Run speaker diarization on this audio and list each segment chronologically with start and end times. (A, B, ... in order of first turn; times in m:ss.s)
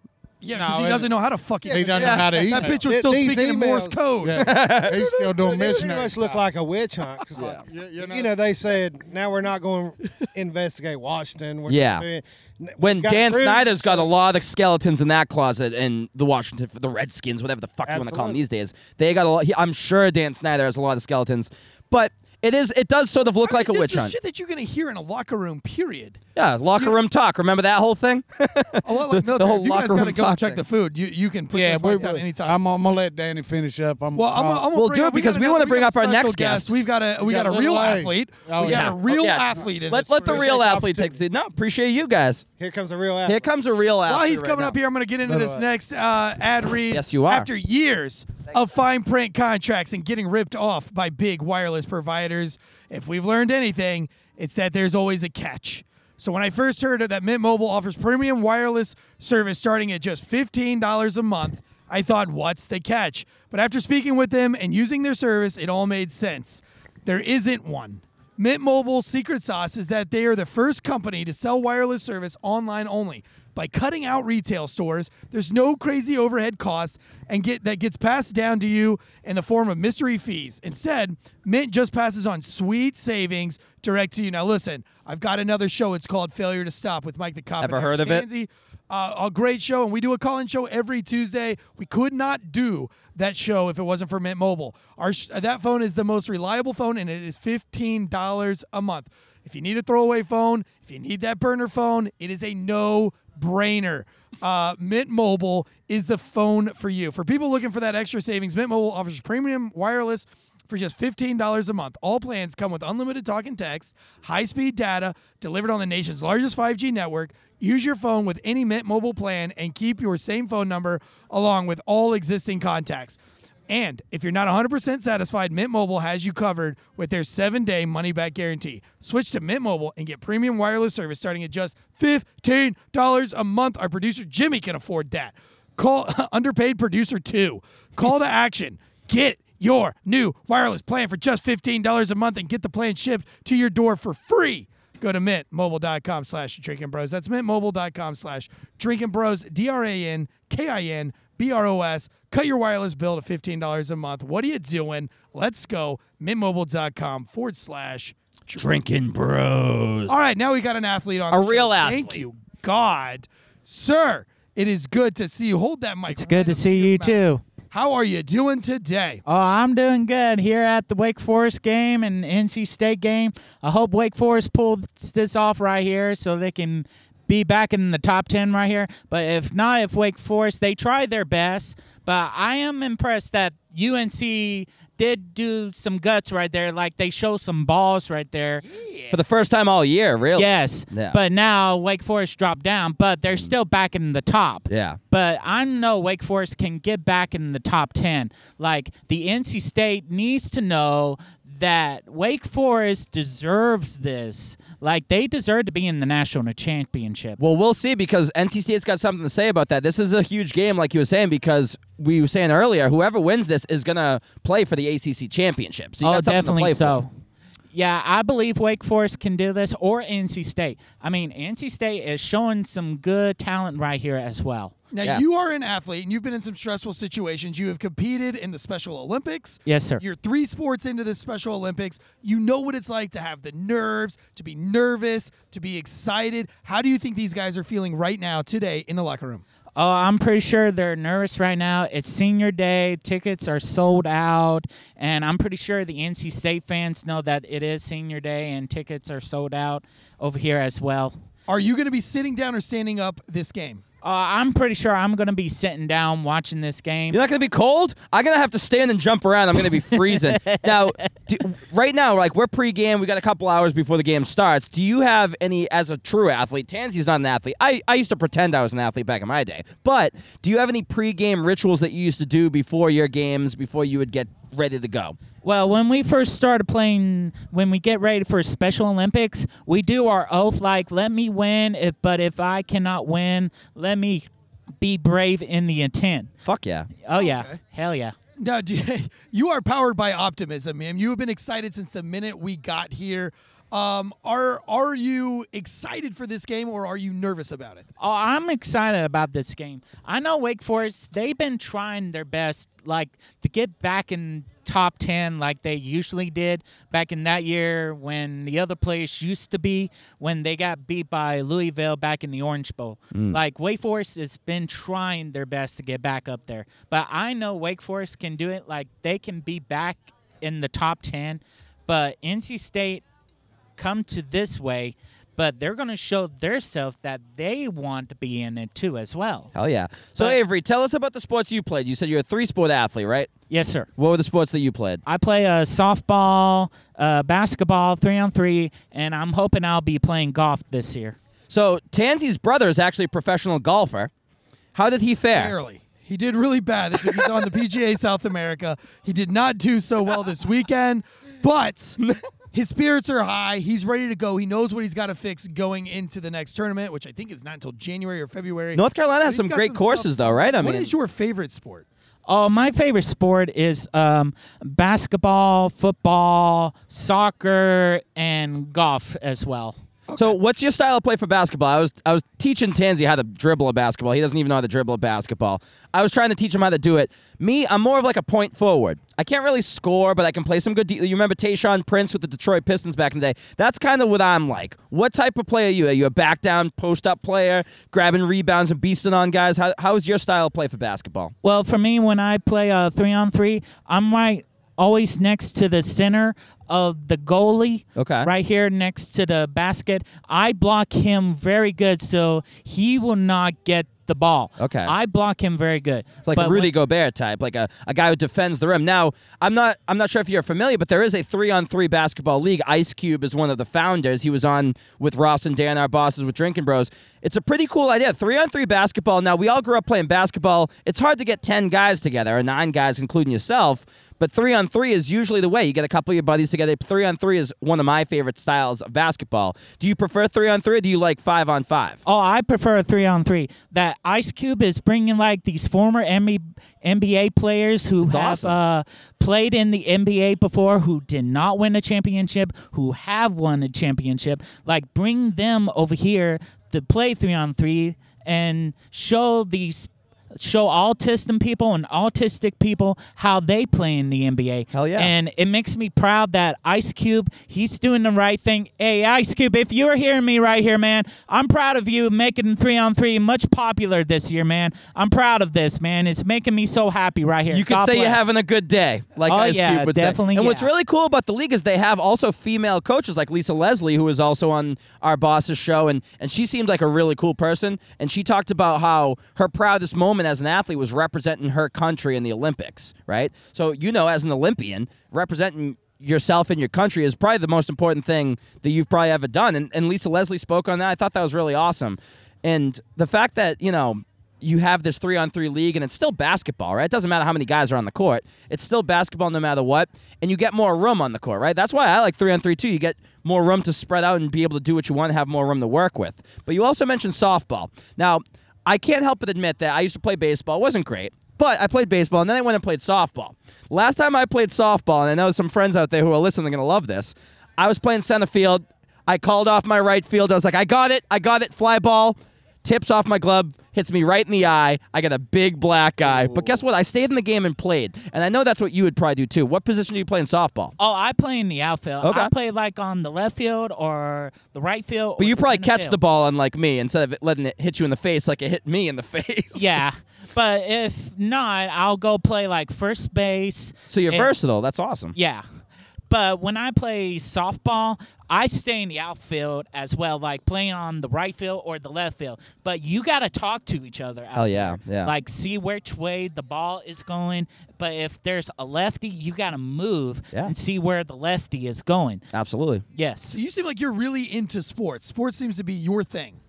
0:00.4-0:04.5 A
0:00.5-0:02.8 B
0:01.6-0:04.1 C
0:04.2-0:06.4 B
0:04.4-0:05.0 D
0:05.0-0:14.1 C
0:07.4-0:08.4 B
0:11.7-0:12.0 D
0:12.8-0:24.2 D
0:17.9-0:18.4 C
0:23.4-0:26.2 A
0:26.4-0:30.6 D
0:28.8-0:32.6 A
0:31.5-0:34.7 B
0:34.1-0:41.0 A
0:34.7-0:36.7 D
0:37.2-0:39.0 B
0:38.6-0:42.4 D
0:42.6-0:43.4 C
0:43.2-0:44.8 D
0:44.1-2:03.2 A
0:45.2-0:45.6 B
0:46.9-0:47.5 D
1:27.6-1:28.2 D
2:03.7-2:38.7 A
2:38.5-2:40.2 D
2:40.1-2:47.2 A
2:41.3-2:42.2 D
2:46.1-2:47.4 E
2:47.7-2:49.2 A
2:49.2-3:08.6 E
3:09.1-3:11.2 D
3:10.3-3:27.4 E
3:14.7-3:15.0 D
3:27.4-3:37.0 D
3:36.0-3:37.1 E
3:37.7-3:44.7 E
3:44.9-3:59.4 A
3:49.6-3:50.0 E
3:59.8-4:11.2 E
4:11.5-4:13.8 A
4:14.0-4:17.2 E
4:17.1-4:35.2 D
4:19.8-4:21.1 E
4:35.4-4:44.3 E
4:44.8-4:46.3 E
4:46.4-4:46.9 D
4:47.0-4:48.1 E
4:47.2-4:47.6 A
4:48.4-4:57.8 A
4:58.0-5:23.0 E
5:13.1-5:13.4 D
5:23.8-5:29.5 E
5:29.5-5:33.3 D
5:33.5-5:33.9 E
5:34.0-5:35.0 D
5:35.0-5:41.2 E
5:41.5-5:44.1 D
5:44.7-5:45.5 D
5:45.3-5:52.0 A
5:52.5-6:01.8 A
5:58.7-6:00.9 D
6:02.2-6:09.8 E
6:10.1-6:10.4 A
6:10.2-6:31.3 D
6:31.4-6:46.7 E
6:38.0-6:38.3 D
6:44.6-6:44.9 D
6:46.2-7:12.0 D
7:12.0-7:48.2 E
7:18.0-7:18.5 D
7:34.7-7:35.1 D
7:47.5-8:50.7 D
7:49.2-7:50.7 E
8:46.2-8:46.6 E
8:50.8-8:56.0 E
8:52.0-8:52.3 D
8:55.2-8:59.6 D
8:59.5-9:04.3 E
9:03.9-9:05.1 D
9:05.1-9:05.4 E
9:06.1-9:22.2 E
9:14.3-9:15.1 D
9:22.3-9:22.8 D
9:23.0-9:23.4 E
9:23.3-9:26.4 A